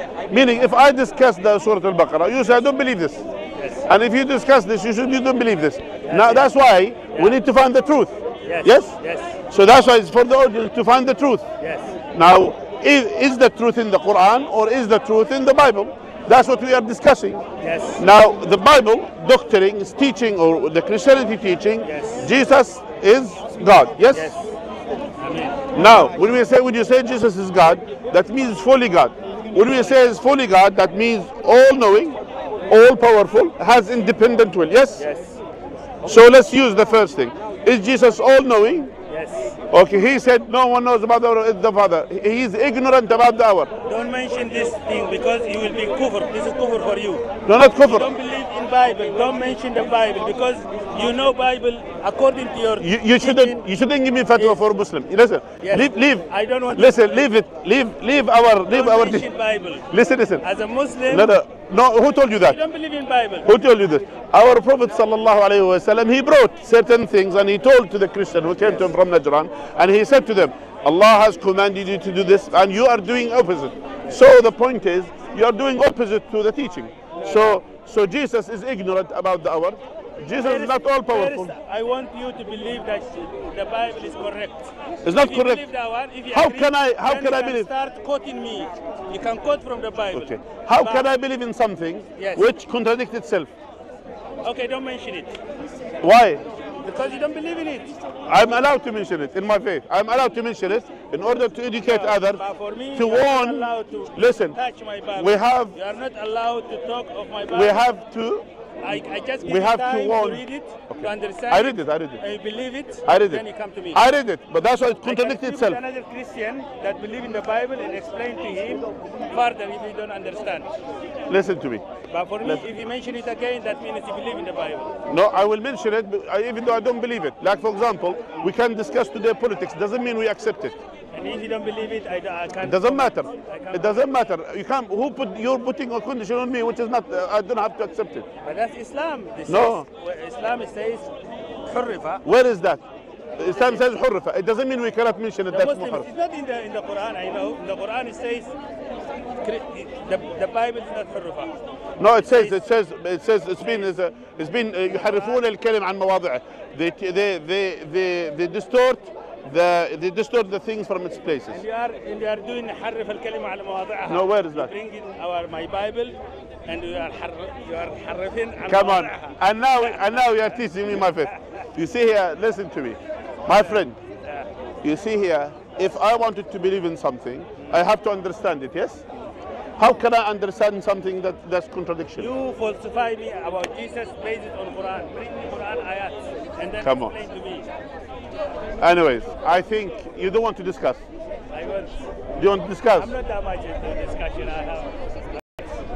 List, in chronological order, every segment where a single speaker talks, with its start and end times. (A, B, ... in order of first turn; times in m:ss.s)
0:00.3-0:03.2 A
0:03.6-0:03.8 B
0:03.8-0:08.9 A
0:06.0-0:06.5 B
0:07.1-0:07.4 B
0:08.4-0:09.4 B
0:09.5-0:11.4 A
0:11.6-0:11.9 B
0:12.1-0:17.4 A
0:17.6-0:18.0 B
0:18.0-0:24.3 A
0:21.8-0:22.3 B
0:24.1-0:24.6 B
0:25.2-0:25.6 B
0:25.7-0:35.0 A
0:35.0-0:35.4 B
0:36.0-0:38.9 A
0:39.1-0:39.6 B
0:39.7-0:43.7 A
0:43.8-0:53.7 B
0:47.4-0:48.1 A
0:52.8-0:59.3 A
0:54.3-0:54.6 B
0:55.6-0:57.3 B
0:58.7-0:59.9 B
0:59.9-1:00.4 A
1:00.4-1:01.3 B
1:01.1-1:02.6 A
1:02.4-1:03.6 B
1:03.4-1:21.5 A
1:17.2-1:17.6 B
1:20.4-1:31.1 B
1:25.0-1:25.6 A
1:26.3-1:27.7 A
1:30.1-1:33.5 A
1:32.2-1:32.5 B
1:34.4-1:35.4 B
1:36.0-1:36.4 A
1:36.8-1:37.9 B
1:38.3-1:42.4 A
1:41.8-1:47.8 B
1:42.9-1:44.6 A
1:45.2-1:45.7 A
1:47.5-1:48.4 A
1:48.8-1:54.0 B
1:49.4-1:52.2 A
1:53.0-1:55.8 A
1:55.0-2:00.7 B
2:01.3-2:01.8 A
2:02.1-2:04.9 B
2:05.1-2:10.8 A
2:11.1-2:14.1 B
2:12.6-2:18.3 A
2:18.4-2:21.1 B
2:19.5-2:19.8 A
2:21.6-2:22.2 B
2:22.2-2:22.8 A
2:23.4-2:26.1 A
2:23.4-2:23.8 B
2:25.5-2:28.5 B
2:29.4-2:31.5 B
2:32.0-2:41.6 A
2:32.2-2:32.6 B
2:41.5-2:51.4 B
2:44.1-2:44.7 A
2:48.7-2:54.0 A
2:53.5-2:54.5 B
2:54.8-2:59.0 A
2:57.6-2:57.8 B
2:59.8-3:02.3 A
3:02.2-3:07.7 B
3:06.8-3:07.1 A
3:08.8-3:11.0 A
3:11.5-3:11.9 B
3:12.4-3:13.1 A
3:12.9-3:15.6 B